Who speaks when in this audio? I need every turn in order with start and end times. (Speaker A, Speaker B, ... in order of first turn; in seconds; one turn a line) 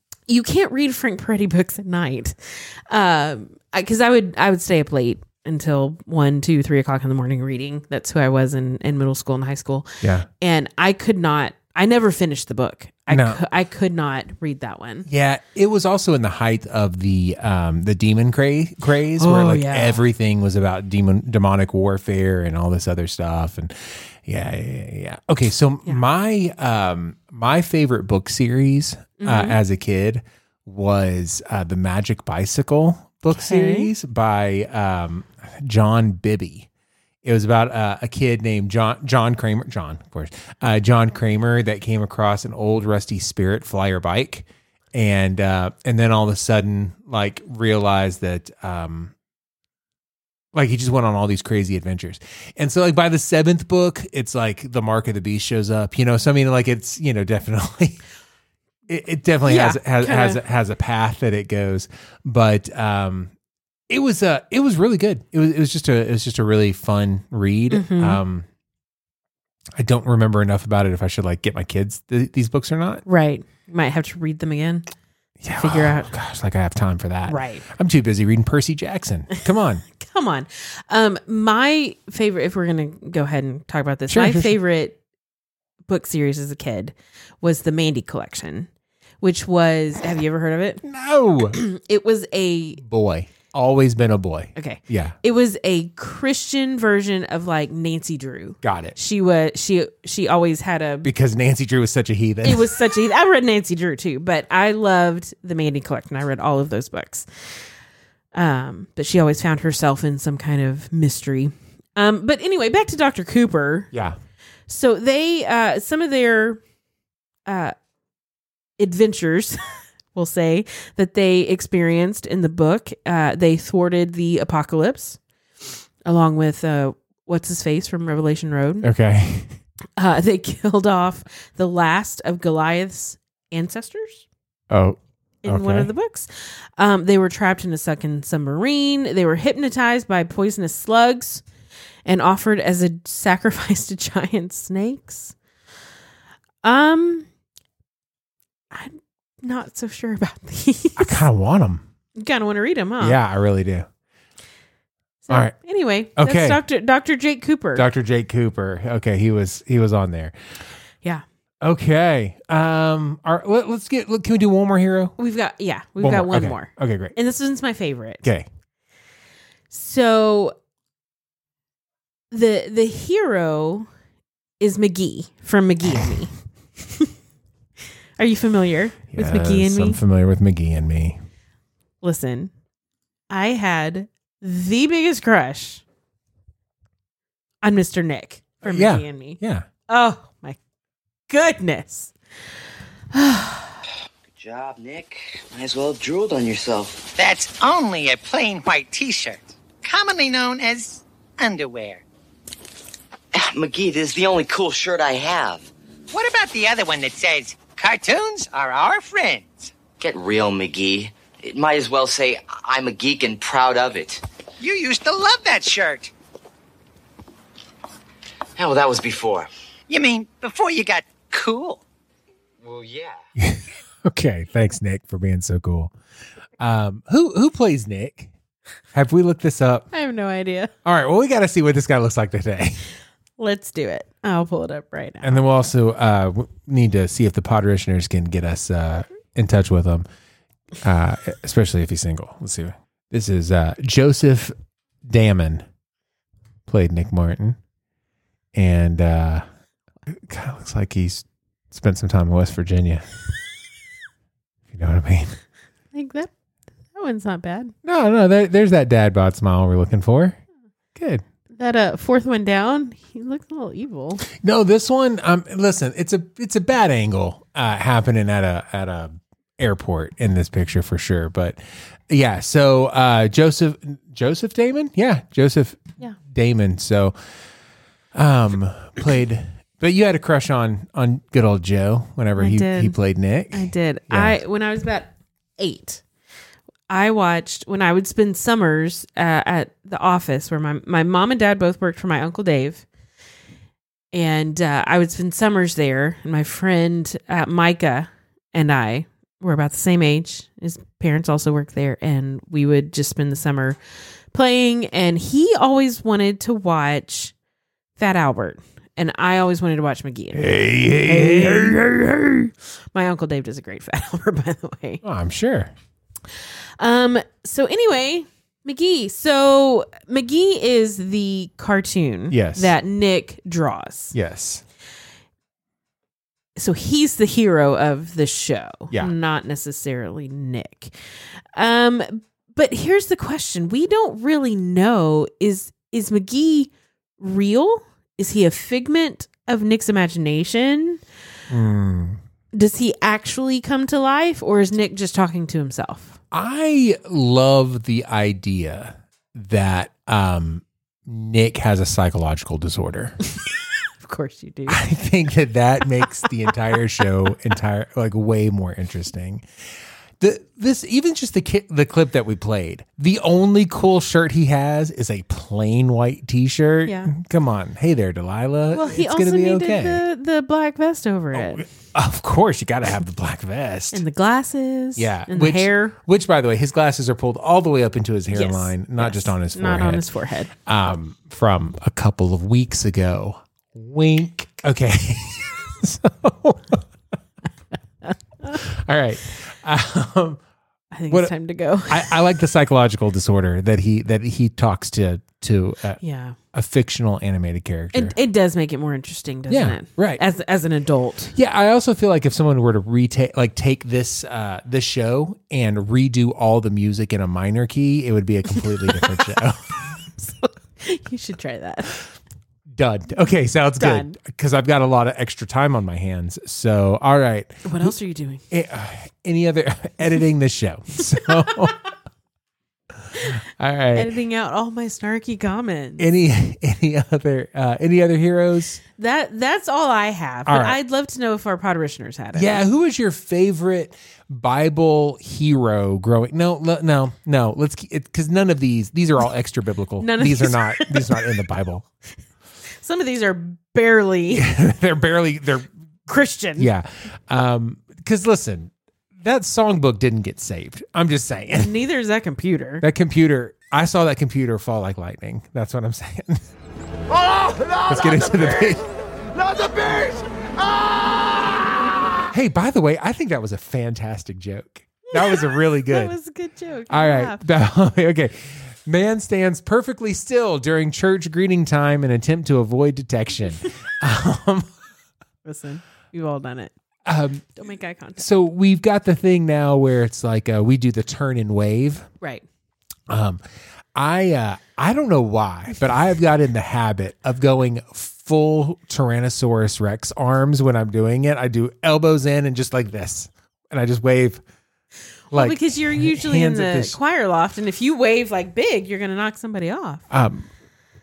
Speaker A: 0.3-9.9
Speaker B: 10.0-10.3
Speaker A: 10.4-15.1
Speaker B: 13.1-13.4
Speaker B: 15.1-36.7
Speaker A: 19.2-20.0
Speaker A: 29.2-29.6
Speaker A: 33.3-33.9
Speaker B: 37.2-49.1
Speaker B: 50.5-58.0
Speaker B: 58.9-63.3
Speaker A: 59.4-60.4
Speaker B: 63.9-68.5
Speaker A: 67.7-68.2
Speaker B: 69.8-73.0
Speaker A: 73.0-74.9
Speaker B: 75.4-79.8
Speaker A: 75.6-76.1
Speaker A: 77.3-77.7
Speaker A: 80.0-85.0
Speaker B: 84.1-84.5
Speaker A: 85.9-88.7
Speaker A: 89.2-90.8
Speaker B: 90.8-91.6
Speaker A: 91.5-92.8
Speaker B: 92.8-95.2
Speaker A: 94.5-101.1
Speaker B: 98.6-98.9
Speaker B: 101.0-102.7
Speaker A: 102.4-107.5
Speaker A: 108.3-113.9
Speaker A: 114.7-116.6
Speaker A: 117.5-117.7
Speaker A: 118.8-125.2
Speaker A: 126.0-128.9
Speaker B: 128.8-129.6
Speaker A: 130.0-134.2
Speaker B: 134.7-135.9
Speaker A: 135.4-141.4
Speaker A: 142.0-145.3
Speaker A: 146.6-147.2
Speaker A: 148.7-151.2
Speaker B: 151.0-151.8
Speaker A: 152.2-153.2
Speaker B: 153.0-153.9
Speaker A: 155.2-157.9
Speaker B: 156.2-156.6
Speaker B: 157.8-160.3
Speaker B: 161.6-165.1
Speaker A: 165.2-168.2
Speaker B: 166.0-167.1
Speaker A: 169.7-170.5
Speaker A: 172.3-173.9
Speaker A: 174.6-177.1
Speaker A: 178.2-180.0
Speaker B: 179.1-181.2
Speaker A: 182.0-182.5
Speaker A: 183.3-185.8
Speaker A: 187.6-190.6
Speaker B: 188.6-189.7
Speaker A: 191.3-192.1
Speaker A: 193.1-193.8
Speaker C: 194.3-197.1
Speaker D: 197.2-202.0
Speaker C: 203.3-205.7
Speaker D: 206.1-209.7
Speaker C: 210.0-214.2
Speaker D: 214.6-216.1
Speaker C: 218.6-219.5
Speaker D: 219.9-221.8
Speaker C: 222.6-223.2
Speaker B: 223.4-225.9
Speaker B: 226.6-228.3
Speaker B: 228.9-229.9
Speaker A: 229.9-230.7
Speaker B: 230.8-232.8
Speaker A: 233.4-235.4
Speaker B: 235.2-240.1
Speaker B: 240.8-244.5
Speaker B: 245.1-245.6
Speaker B: 246.7-247.6
Speaker B: 248.5-249.4
Speaker B: 250.1-253.1
Speaker B: 254.7-255.4
Speaker A: 255.9-256.3
Speaker A: 256.9-257.7
Speaker B: 257.8-260.4
Speaker B: 260.9-261.2
Speaker A: 261.5-264.2
Speaker B: 264.3-277.1
Speaker B: 278.1-284.3
Speaker A: 282.4-283.0
Speaker A: 283.5-286.0
Speaker A: 286.9-292.8
Speaker A: 294.1-303.8
Speaker A: 304.3-307.3
Speaker A: 308.0-310.5
Speaker B: 310.3-311.8
Speaker A: 311.0-315.0
Speaker B: 315.0-315.7
Speaker A: 316.8-324.1
Speaker B: 322.3-322.7
Speaker B: 324.1-324.6
Speaker A: 326.6-330.9
Speaker A: 331.5-341.0
Speaker B: 341.5-342.2
Speaker A: 342.5-346.2
Speaker B: 346.3-353.2
Speaker A: 354.0-354.8
Speaker B: 354.7-359.4
Speaker B: 360.2-370.0
Speaker A: 366.9-367.1
Speaker A: 368.7-371.6
Speaker B: 371.3-374.0
Speaker A: 373.9-375.9
Speaker B: 374.9-380.0
Speaker A: 378.3-380.5
Speaker B: 380.6-386.8
Speaker A: 388.0-388.6
Speaker B: 388.5-390.4
Speaker A: 390.9-392.2
Speaker B: 391.9-396.0
Speaker A: 396.0-396.4
Speaker B: 396.5-398.1
Speaker A: 397.9-401.3
Speaker B: 399.5-400.2
Speaker B: 401.3-409.6
Speaker A: 408.6-412.0
Speaker B: 412.8-417.9
Speaker A: 413.8-414.1
Speaker A: 417.6-418.4
Speaker B: 418.5-421.8
Speaker A: 421.3-421.7
Speaker B: 423.1-424.1
Speaker A: 423.9-426.1
Speaker B: 426.0-428.8
Speaker A: 429.0-432.6
Speaker B: 430.5-430.8
Speaker B: 432.3-441.8
Speaker A: 440.0-441.4
Speaker A: 442.7-444.5
Speaker B: 444.3-445.7
Speaker A: 446.1-446.7
Speaker B: 446.6-451.7
Speaker A: 451.6-452.8
Speaker B: 452.8-456.5
Speaker B: 457.7-458.8
Speaker B: 462.3-466.1
Speaker A: 465.1-467.4
Speaker B: 466.9-474.7
Speaker A: 475.4-476.7
Speaker B: 477.1-477.5
Speaker A: 477.6-478.2
Speaker B: 478.2-482.1
Speaker B: 483.1-483.4
Speaker B: 483.9-494.4
Speaker A: 495.3-500.0
Speaker B: 495.3-497.0
Speaker B: 500.1-500.5